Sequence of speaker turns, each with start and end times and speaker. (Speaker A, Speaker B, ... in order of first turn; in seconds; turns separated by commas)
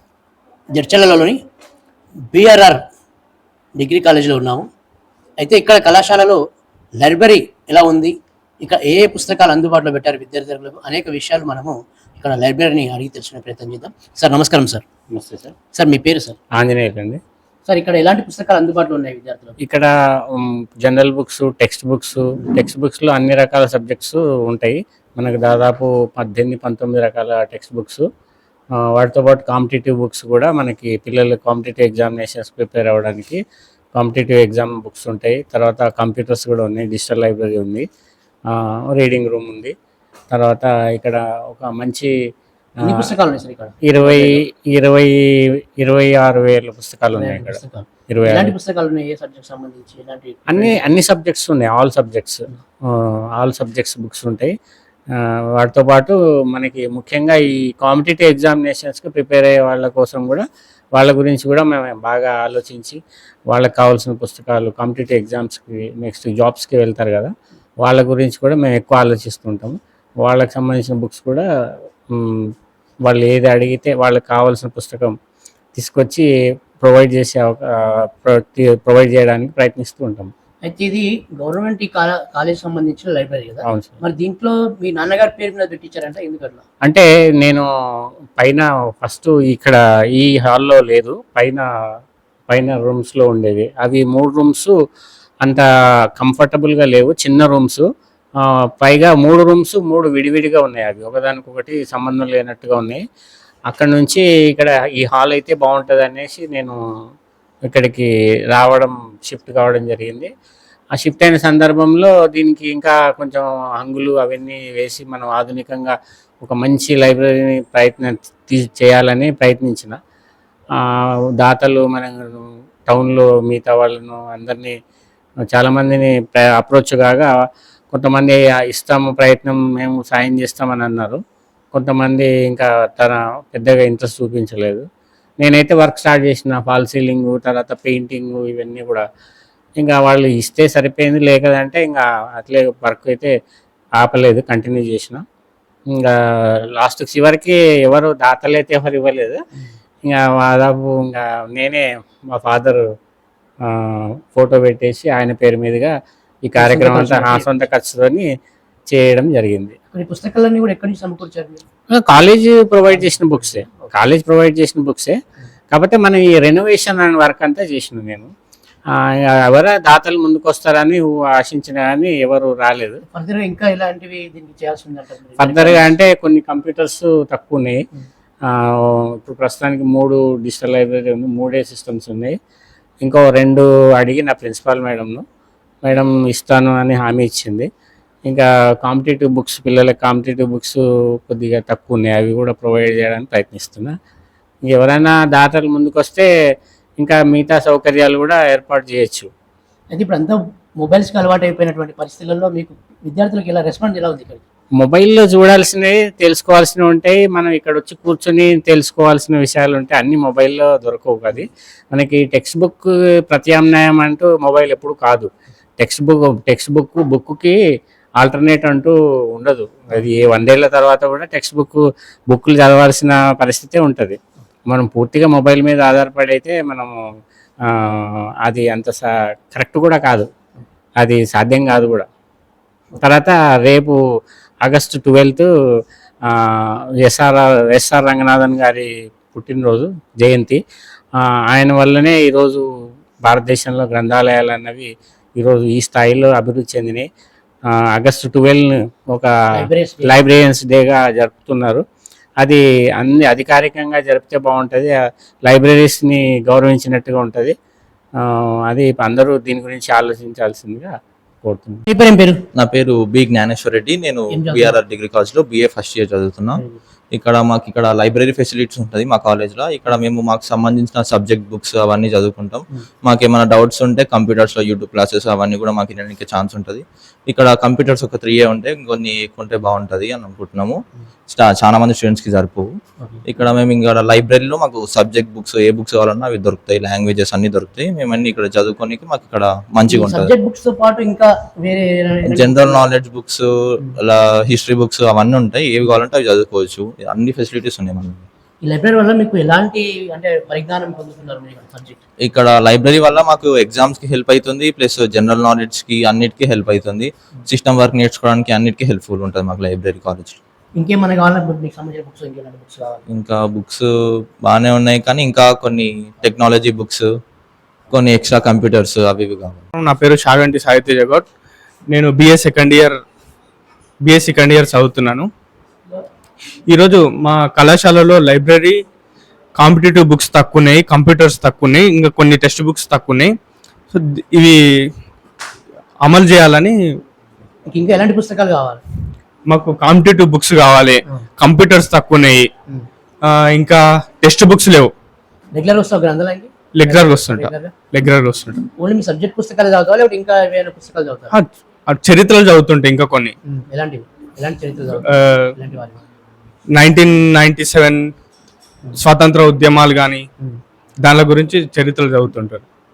Speaker A: 0.7-1.4, Speaker A: 2.3-2.8, Speaker A: 3.8-4.7, Speaker A: 5.4-6.4, Speaker A: 7.0-14.8, Speaker B: 15.1-15.5, Speaker A: 15.7-16.4, Speaker B: 16.6-17.2, Speaker A: 17.7-19.6, Speaker B: 19.6-28.0, Speaker B: 28.9-33.4, Speaker B: 34.0-37.8, Speaker B: 38.9-39.7, Speaker B: 40.3-42.1, Speaker A: 42.8-44.4, Speaker B: 43.9-45.1, Speaker B: 45.8-48.5, Speaker A: 47.1-50.8, Speaker B: 50.5-52.4, Speaker B: 53.4-54.5, Speaker B: 55.6-63.0, Speaker B: 63.5-67.3, Speaker B: 67.8-71.4, Speaker B: 72.2-72.5, Speaker B: 73.0-75.1, Speaker B: 75.7-76.2, Speaker B: 76.8-80.3, Speaker A: 80.6-86.6, Speaker B: 83.7-84.0, Speaker B: 86.8-87.7, Speaker B: 88.4-91.6, Speaker B: 92.5-94.7, Speaker B: 96.2-97.8, Speaker B: 98.8-103.0, Speaker B: 103.7-106.8, Speaker B: 107.7-110.3, Speaker B: 111.0-120.0, Speaker B: 121.4-124.8, Speaker B: 125.5-127.3, Speaker B: 127.9-131.2, Speaker B: 131.7-134.8, Speaker B: 135.4-139.0, Speaker B: 139.8-143.3, Speaker B: 144.0-145.2, Speaker B: 146.8-149.4, Speaker B: 150.0-152.8, Speaker B: 153.7-158.3, Speaker A: 156.6-157.5, Speaker B: 158.9-159.7, Speaker A: 159.9-161.6, Speaker B: 161.9-165.2, Speaker B: 165.7-168.3, Speaker B: 169.4-173.0, Speaker A: 173.1-175.9, Speaker B: 175.4-177.8, Speaker B: 178.9-182.3, Speaker B: 183.0-185.2, Speaker B: 185.8-187.7, Speaker B: 188.3-193.9, Speaker B: 194.7-196.3, Speaker B: 197.0-199.3, Speaker A: 199.9-204.4, Speaker B: 204.8-215.3, Speaker B: 215.8-217.6, Speaker B: 218.2-224.2, Speaker B: 224.7-227.0, Speaker B: 227.9-230.3, Speaker B: 231.0-232.1, Speaker B: 233.0-234.0, Speaker B: 234.6-235.5, Speaker B: 237.0-240.6, Speaker B: 241.5-242.6, Speaker B: 243.2-247.1, Speaker B: 247.9-249.3, Speaker A: 249.5-250.2, Speaker B: 250.0-251.8, Speaker B: 252.4-257.5, Speaker B: 258.7-261.8, Speaker A: 261.9-262.4, Speaker C: 262.5-280.8, Speaker A: 264.3-264.8, Speaker C: 281.3-282.7, Speaker C: 283.2-290.3, Speaker A: 289.9-292.9, Speaker C: 292.3-293.4, Speaker C: 294.0-298.2, Speaker A: 298.6-302.0, Speaker C: 302.2-310.4, Speaker A: 310.8-313.0, Speaker C: 313.1-313.9, Speaker C: 314.4-317.0, Speaker C: 317.9-319.6, Speaker D: 319.8-321.3, Speaker D: 321.9-323.0, Speaker D: 324.0-325.3, Speaker D: 326.7-328.8, Speaker D: 329.5-333.3, Speaker D: 333.9-334.6, Speaker D: 336.0-336.8, Speaker A: 337.7-338.8, Speaker D: 339.5-342.5, Speaker D: 343.2-344.9, Speaker A: 345.5-347.7, Speaker D: 346.7-348.6, Speaker A: 348.8-351.3, Speaker D: 351.3-353.3, Speaker A: 353.5-356.0, Speaker D: 355.1-355.5, Speaker D: 356.7-358.1, Speaker D: 358.9-360.2, Speaker D: 361.0-362.6